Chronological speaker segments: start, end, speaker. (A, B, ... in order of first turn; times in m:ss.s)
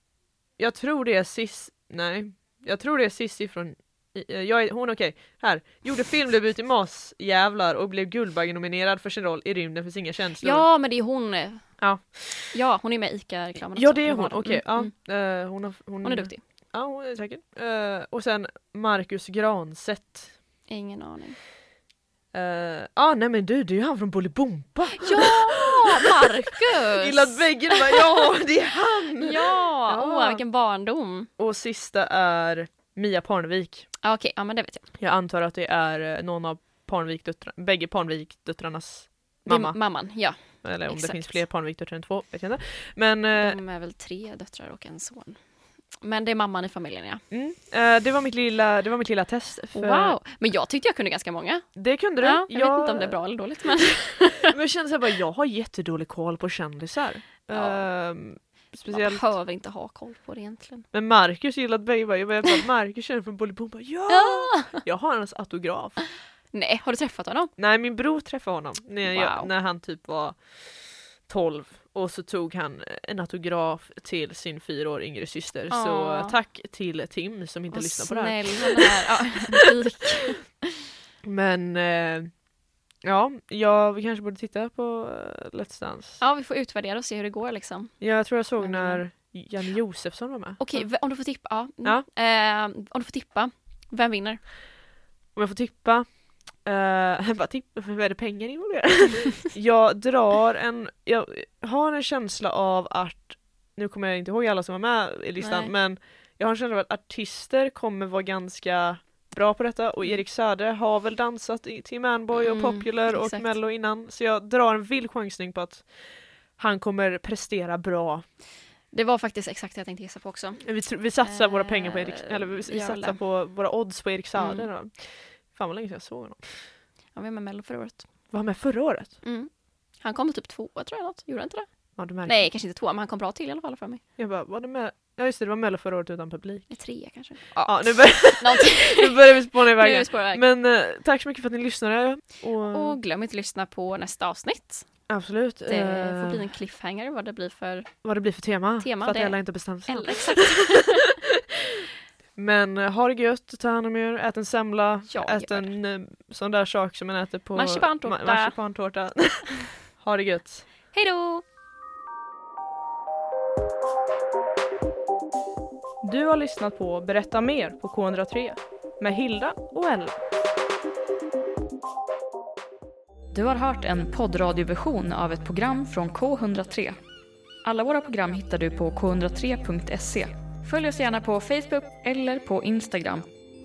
0:00.6-0:10.6 A
0:10.4-0:11.8 B
0:11.8-0:12.5 A
0:12.4-0:14.9 B
0:13.7-0:20.3 A
0:16.0-0:16.4 B
0:20.7-0:21.4 B
0:22.3-0:26.1 A
0:25.0-0:28.0 B
0:27.0-0:30.4 A
0:29.2-0:31.3 B
0:31.4-0:33.9 A
0:34.0-0:34.9 B
0:35.0-0:39.8 A
0:39.4-0:41.4 B
0:40.4-0:43.6 A
0:43.3-0:45.4 B
0:46.0-0:47.2 B
0:47.3-0:50.2 A
0:49.7-0:54.5 B
0:51.8-0:53.2 A
0:54.4-0:59.3 A
0:57.5-0:57.8 B
0:58.9-1:00.8 B
1:00.9-1:06.0 A
1:04.1-1:04.8 B
1:06.5-1:07.5 B
1:07.6-1:19.7 A
1:09.0-1:09.5 B
1:15.7-1:16.4 B
1:17.7-1:20.6 B
1:21.2-1:22.3 A
1:23.0-1:26.2 A
1:26.2-1:28.0 B
1:28.0-1:30.8 A
1:28.6-1:29.0 B
1:30.6-1:34.4 B
1:35.3-1:36.1 A
1:36.6-1:58.2 A
1:45.4-1:45.7 B
1:52.3-1:53.5 B
1:58.9-2:00.6 B
2:00.6-2:06.6 A
2:01.2-2:03.2 B
2:04.4-2:04.7 B
2:07.1-2:08.0 B
2:08.3-2:09.1 A
2:09.2-2:11.7 B
2:12.0-2:12.4 A
2:12.2-2:14.0 B
2:14.2-2:16.7 A
2:16.7-2:20.4 B
2:17.6-2:23.0 A
2:22.6-2:24.8 B
2:25.1-2:26.5 A
2:25.7-2:27.9 B
2:28.0-2:31.4 A
2:28.8-2:31.1 B
2:32.4-2:40.6 A
2:35.1-2:35.7 B
2:37.5-2:38.6 B
2:40.9-2:41.4 B
2:46.0-2:50.2 A
2:53.3-2:57.0 C
2:57.6-3:03.3 C